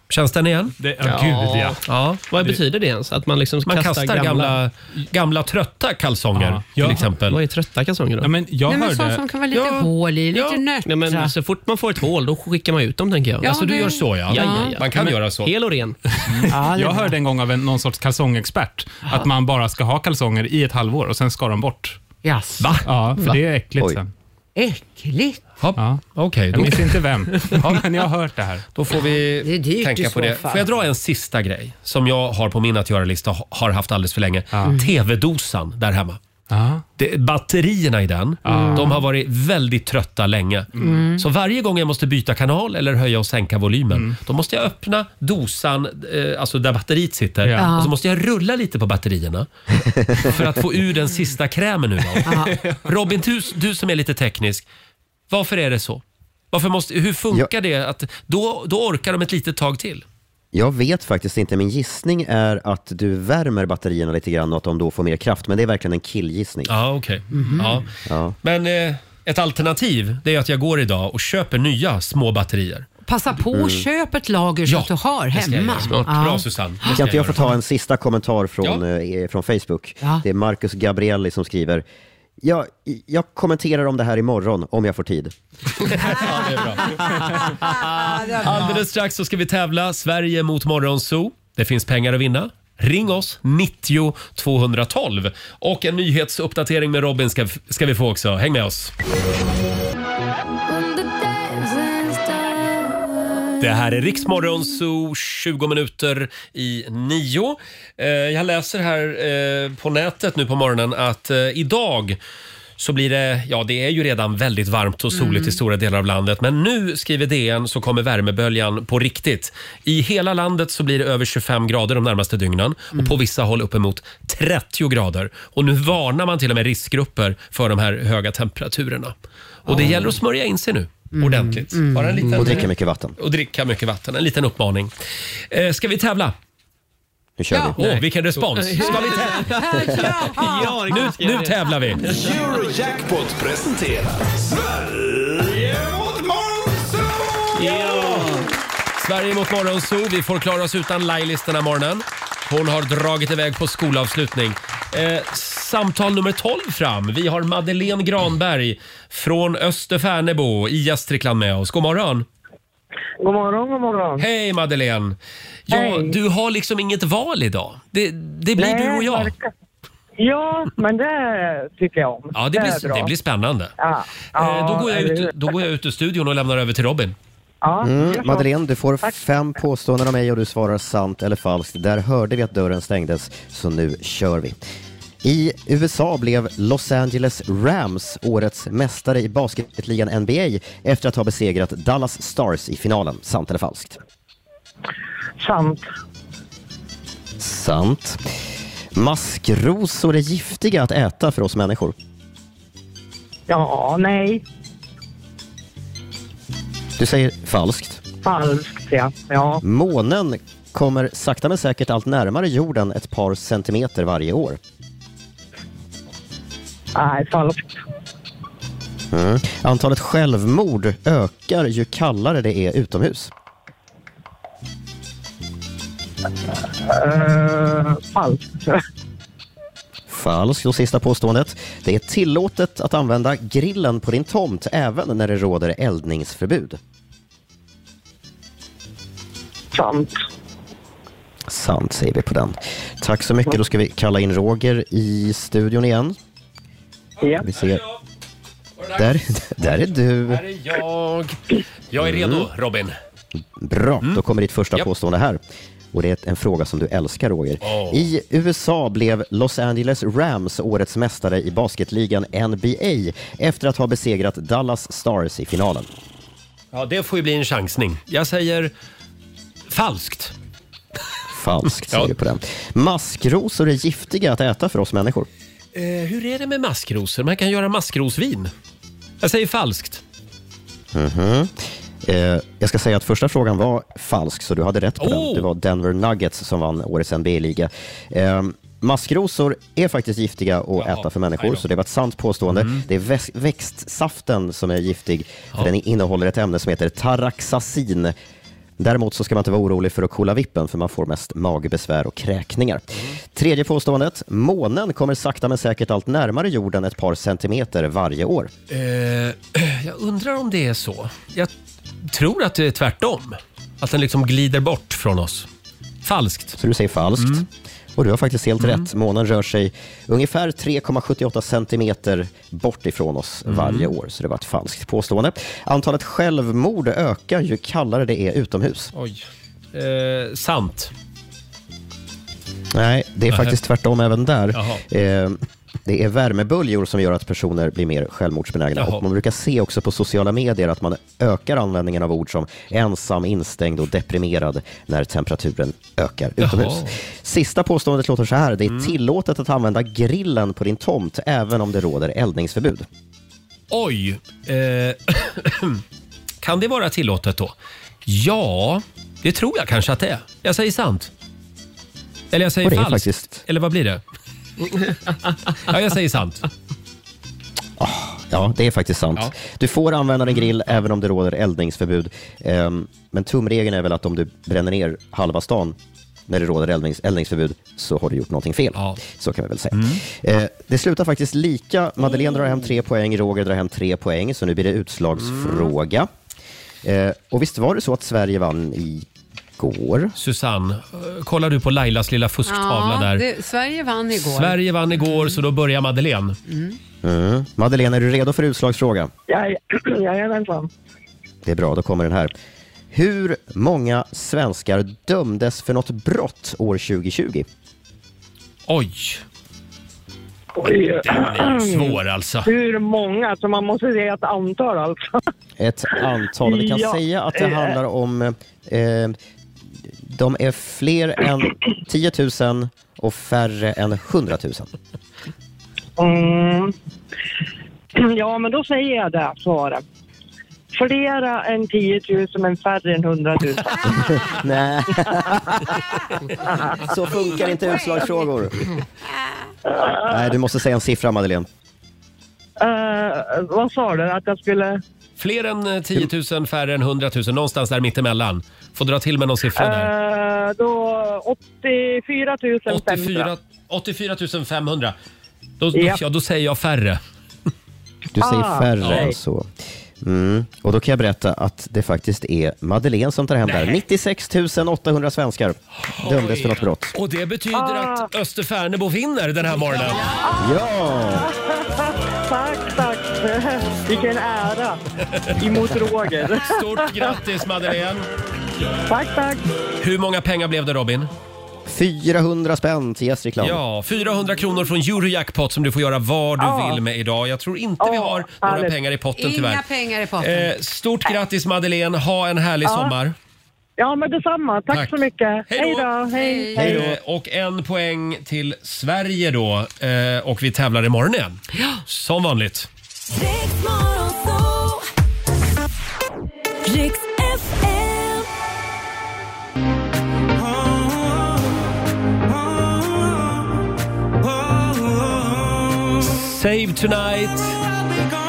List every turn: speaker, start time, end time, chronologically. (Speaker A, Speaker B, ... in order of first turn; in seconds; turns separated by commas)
Speaker A: 0.1-0.8, Speaker B: 0.8-1.8, Speaker C: 1.0-4.6, Speaker A: 1.9-2.2, Speaker A: 3.6-7.4, Speaker B: 6.3-7.1, Speaker C: 7.3-8.3, Speaker B: 8.2-9.9, Speaker D: 8.7-11.3, Speaker A: 9.5-10.6, Speaker C: 10.8-13.6, Speaker D: 13.4-14.8, Speaker A: 13.4-15.5, Speaker C: 14.2-16.2, Speaker B: 16.3-22.0, Speaker D: 16.5-17.2, Speaker D: 22.2-23.4, Speaker A: 22.6-22.9, Speaker B: 22.8-24.1, Speaker D: 24.6-25.4, Speaker A: 25.6-27.8, Speaker B: 25.8-28.7, Speaker A: 28.8-36.2, Speaker D: 28.9-30.6, Speaker B: 36.5-36.8, Speaker A: 37.0-49.5, Speaker B: 38.5-39.0, Speaker D: 38.5-39.0, Speaker B: 40.8-41.0, Speaker D: 40.8-41.2, Speaker B: 43.9-44.2, Speaker B: 47.4-47.7, Speaker D: 47.6-47.9, Speaker A: 50.1-54.7, Speaker D: 52.2-52.6, Speaker B: 52.6-52.8, Speaker A: 55.3-60.0, Speaker E: 60.5-66.7, Speaker A: 66.7-67.9, Speaker D: 67.3-67.8, Speaker E: 68.1-68.4, Speaker A: 68.4-72.9, Speaker D: 73.1-77.0, Speaker E: 73.5-73.9, Speaker A: 74.7-77.4, Speaker E: 76.9-81.8, Speaker E: 82.4-85.3, Speaker A: 85.9-87.0, Speaker D: 87.1-88.8, Speaker A: 88.3-98.9, Speaker F: 100.7-104.5, Speaker A: 103.6-112.2, Speaker A: 112.8-129.1, Speaker D: 115.1-115.6, Speaker D: 129.7-130.1, Speaker A: 129.7-134.9, Speaker D: 131.1-132.5, Speaker E: 132.3-133.2, Speaker A: 135.5-136.3, Speaker E: 137.4-137.8, Speaker D: 137.5-137.8, Speaker A: 137.8-139.8, Speaker C: 137.8-142.8, Speaker D: 138.8-141.2, Speaker A: 140.6-142.1, Speaker G: 142.3-147.2, Speaker C: 147.5-148.5, Speaker A: 149.0-162.3, Speaker H: 163.2-164.2, Speaker A: 164.2-169.3, Speaker H: 165.7-166.2, Speaker H: 168.6-169.5, Speaker H: 170.2-173.1, Speaker A: 172.3-173.8, Speaker H: 173.8-175.3, Speaker A: 174.3-177.2, Speaker H: 177.6-178.5, Speaker E: 177.8-184.6, Speaker E: 185.2-194.0, Speaker H: 195.4-195.8, Speaker E: 197.4-198.2, Speaker E: 198.9-201.9, Speaker H: 203.5-204.4, Speaker E: 207.0-208.0, Speaker H: 208.2-209.6, Speaker E: 209.6-214.6, Speaker H: 216.9-217.8, Speaker E: 219.1-223.3, Speaker H: 226.9-228.8, Speaker E: 230.1-236.8, Speaker H: 239.7-240.1, Speaker E: 241.5-246.2, Speaker H: 247.2-247.5, Speaker E: 247.4-247.8, Speaker A: 247.5-248.0, Speaker A: 248.8-249.1, Speaker E: 249.0-250.4, Speaker A: 249.6-252.9, Speaker E: 252.0-252.5, Speaker E: 253.6-255.4, Speaker E: 255.9-265.9, Speaker A: 257.6-258.1, Speaker A: 266.7-268.7, Speaker A: 269.7-270.3, Speaker E: 271.3-275.3, Speaker A: 275.8-278.5, Speaker A: 279.2-280.0, Speaker E: 280.9-298.1, Speaker A: 285.0-285.5, Speaker A: 290.8-291.6, Speaker A: 292.6-292.8, Speaker E: 298.8-308.5, Speaker A: 308.7-311.5, Speaker A: 312.1-315.5, Speaker A: 316.0-316.6, Speaker E: 316.6-328.9, Speaker A: 317.2-317.4, Speaker A: 323.5-323.9, Speaker A: 328.9-330.9, Speaker E: 332.7-352.9, Speaker A: 333.3-333.6, Speaker A: 334.6-334.8, Speaker A: 338.8-339.0, Speaker A: 346.4-346.9, Speaker A: 353.7-355.8, Speaker A: 356.4-357.5, Speaker A: 358.1-361.1, Speaker A: 362.3-364.0, Speaker E: 362.6-363.4, Speaker A: 365.5-366.5, Speaker E: 367.8-375.8, Speaker E: 376.3-386.1, Speaker A: 379.7-380.0, Speaker A: 385.2-385.7, Speaker E: 386.8-389.1, Speaker E: 389.6-390.1, Speaker A: 390.2-393.2, Speaker D: 392.5-395.4, Speaker A: 394.2-396.4, Speaker D: 396.5-396.8, Speaker E: 397.0-399.1, Speaker H: 399.3-400.7, Speaker E: 401.4-402.3, Speaker E: 402.9-407.5, Speaker A: 408.7-409.2, Speaker H: 410.6-415.2, Speaker A: 410.6-412.5, Speaker E: 415.6-419.1, Speaker H: 416.4-417.8, Speaker E: 420.0-424.7, Speaker H: 426.0-426.7, Speaker H: 428.0-429.8, Speaker H: 430.8-434.2, Speaker E: 434.3-435.7, Speaker E: 436.8-438.6, Speaker E: 440.1-441.5, Speaker H: 442.6-444.8, Speaker A: 445.2-449.9, Speaker H: 449.6-453.3, Speaker A: 452.7-454.9, Speaker A: 455.6-457.0, Speaker H: 455.7-456.0, Speaker E: 458.2-459.5, Speaker H: 458.2-459.2, Speaker A: 458.8-459.1, Speaker E: 460.0-466.9, Speaker A: 465.9-470.1, Speaker H: 467.5-468.1, Speaker E: 470.4-471.3, Speaker H: 471.2-474.8, Speaker H: 475.4-477.1, Speaker A: 476.4-478.1, Speaker H: 478.9-479.4, Speaker A: 479.8-481.1, Speaker E: 481.7-483.6, Speaker A: 483.4-489.7, Speaker H: 486.4-486.8, Speaker H: 487.8-488.7, Speaker D: 489.1-490.5, Speaker A: 490.2-493.1, Speaker H: 492.6-492.9, Speaker H: 493.8-496.9, Speaker A: 494.7-502.7, Speaker D: 496.2-496.9, Speaker F: 503.1-504.9, Speaker F: 506.6-508.3, Speaker A: 516.0-517.6